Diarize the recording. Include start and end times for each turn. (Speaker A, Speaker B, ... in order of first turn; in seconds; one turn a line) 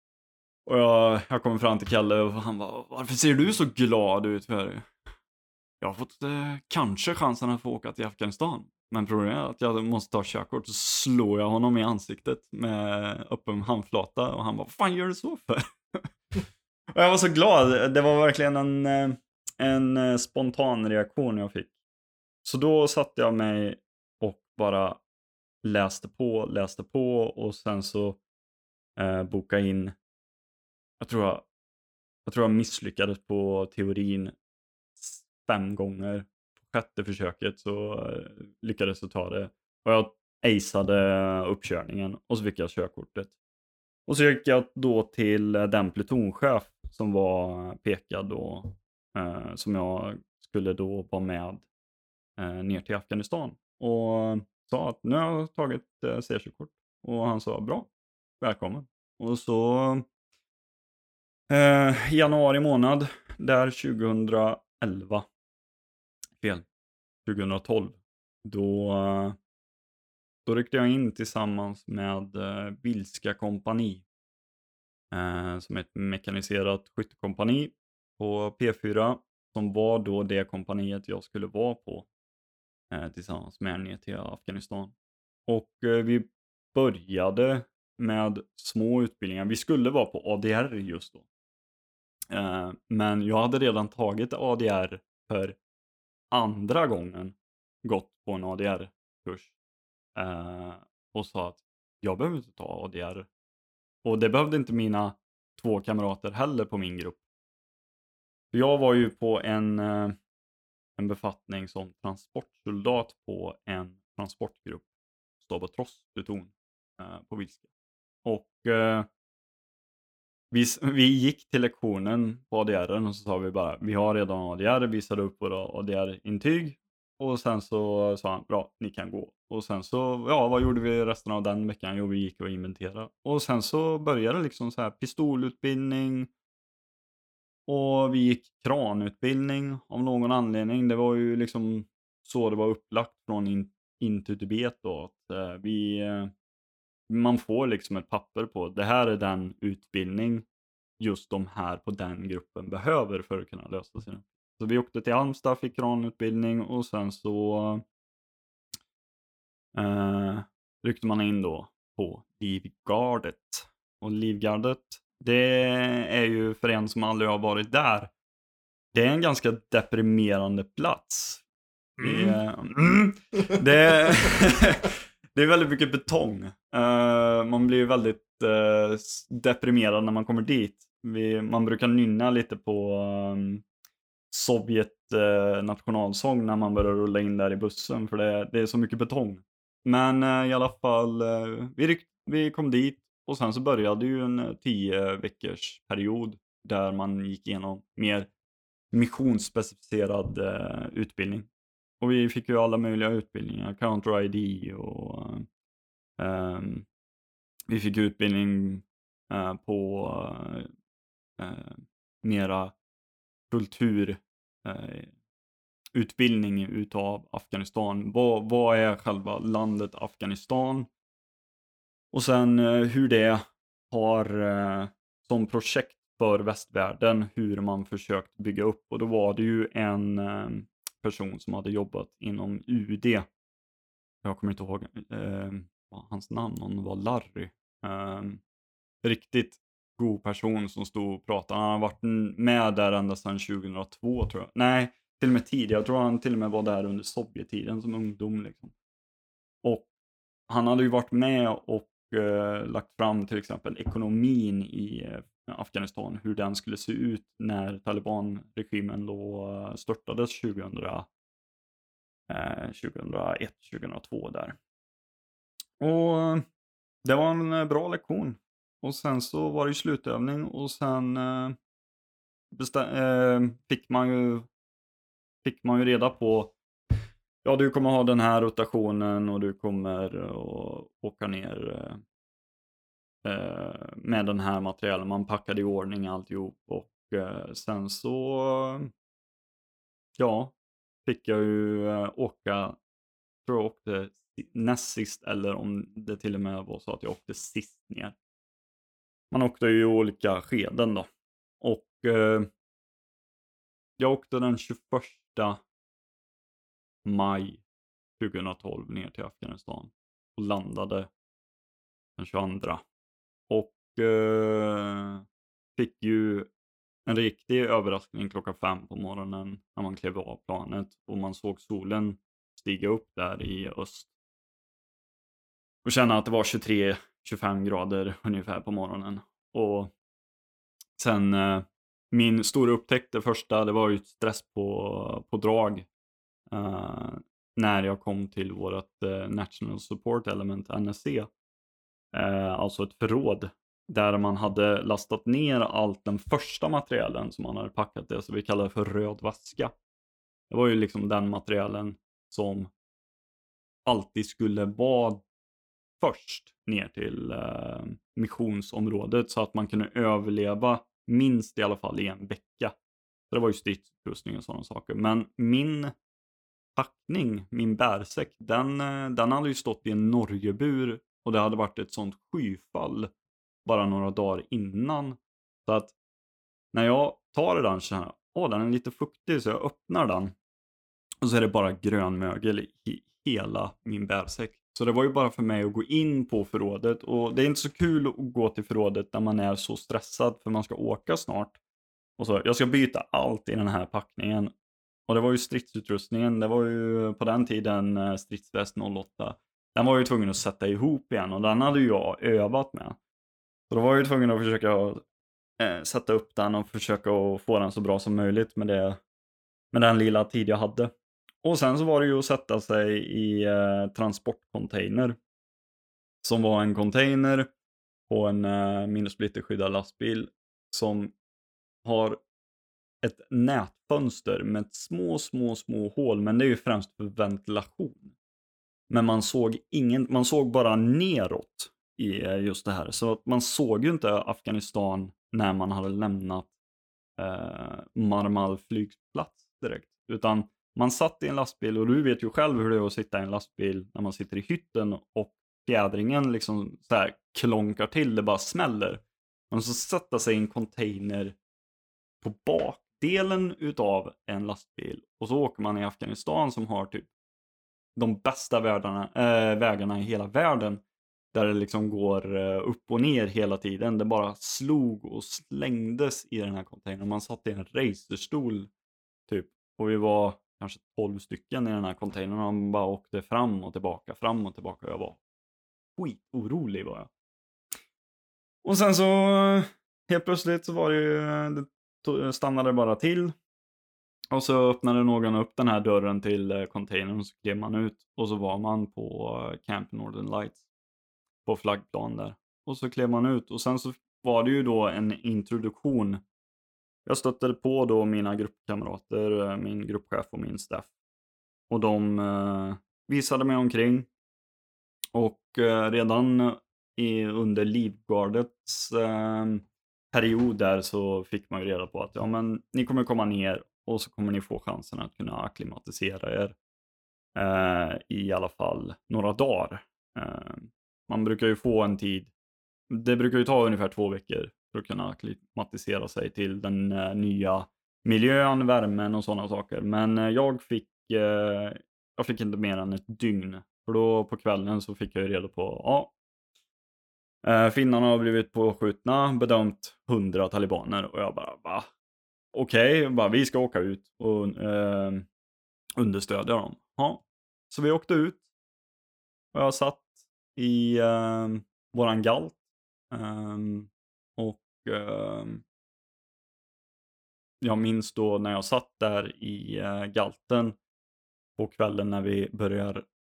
Speaker A: 0.7-4.9
Speaker A: 5.8-16.1
Speaker A: 16.9-21.7
Speaker A: 22.4-25.0
Speaker A: 25.6-28.2
Speaker A: 29.0-29.9
Speaker A: 31.0-31.4
Speaker A: 32.2-34.3
Speaker A: 35.0-43.3
Speaker A: 44.1-51.7
Speaker A: 52.4-57.9
Speaker A: 58.4-60.1
Speaker A: 61.5-65.3
Speaker A: 66.4-66.7
Speaker A: 67.2-69.4
Speaker A: 70.5-74.0
Speaker A: 75.1-82.1
Speaker A: 82.9-84.9
Speaker A: 85.5-91.2
Speaker A: 92.3-95.6
Speaker A: 96.3-99.5
Speaker A: 100.2-103.3
Speaker A: 104.0-107.2
Speaker A: 108.5-110.2
Speaker A: 111.0-114.8
Speaker A: 115.4-117.6
Speaker A: 118.2-119.1
Speaker A: 120.5-136.3
Speaker A: 137.7-146.3
Speaker A: 147.1-150.4
Speaker A: 151.0-157.8
Speaker A: 159.7-168.1
Speaker A: 168.9-171.4
Speaker A: 172.0-183.6
Speaker A: 184.3-198.3
Speaker A: 198.9-201.5
Speaker A: 202.0-205.5
Speaker A: 206.2-206.9
Speaker A: 207.7-210.7
Speaker A: 211.4-212.7
Speaker A: 213.5-215.1
Speaker A: 215.9-220.9
Speaker A: 222.1-233.3
Speaker A: 234.2-238.4
Speaker A: 239.0-248.7
Speaker A: 249.6-249.9
Speaker A: 250.5-261.1
Speaker A: 262.3-264.6
Speaker A: 265.8-266.4
Speaker A: 267.0-271.6
Speaker A: 272.5-274.5
Speaker A: 275.4-276.5
Speaker A: 277.4-282.0
Speaker A: 283.2-288.9
Speaker A: 290.2-292.8
Speaker A: 293.4-298.1
Speaker A: 299.3-301.1
Speaker A: 301.6-302.5
Speaker A: 304.0-305.6
Speaker A: 307.0-307.6
Speaker A: 308.2-311.1
Speaker A: 312.2-312.8
Speaker A: 313.5-315.2
Speaker A: 315.8-316.5
Speaker A: 317.1-324.1
Speaker A: 325.8-329.9
Speaker A: 331.0-335.9
Speaker A: 336.5-341.3
Speaker A: 342.1-349.7
Speaker A: 350.5-352.7
Speaker A: 353.9-355.2
Speaker A: 356.0-362.7
Speaker A: 363.3-365.9
Speaker A: 366.8-373.1
Speaker A: 373.6-375.9
Speaker A: 376.7-380.3
Speaker A: 381.2-391.6
Speaker A: 392.2-394.5
Speaker A: 395.1-403.0
Speaker A: 403.7-405.0
Speaker A: 405.6-409.0
Speaker A: 409.7-415.2
Speaker A: 416.2-417.5
Speaker A: 418.1-421.1
Speaker A: 421.8-422.2
Speaker A: 423.0-428.1
Speaker A: 428.9-436.5
Speaker A: 437.2-451.3
Speaker A: 452.2-457.1
Speaker A: 457.9-460.8
Speaker A: 461.3-468.7
Speaker A: 469.3-475.2
Speaker A: 476.0-477.1
Speaker A: 478.6-483.3
Speaker A: 484.3-490.6
Speaker A: 491.4-496.2
Speaker A: 497.1-500.9
Speaker A: 501.7-504.1
Speaker A: 505.1-516.5
Speaker A: 517.4-522.3
Speaker A: 522.9-536.1
Speaker A: 537.4-541.9
Speaker A: 542.5-545.2
Speaker A: 546.0-548.4
Speaker A: 549.5-552.6
Speaker A: 553.1-555.6
Speaker A: 557.6-560.8
Speaker A: 561.6-563.0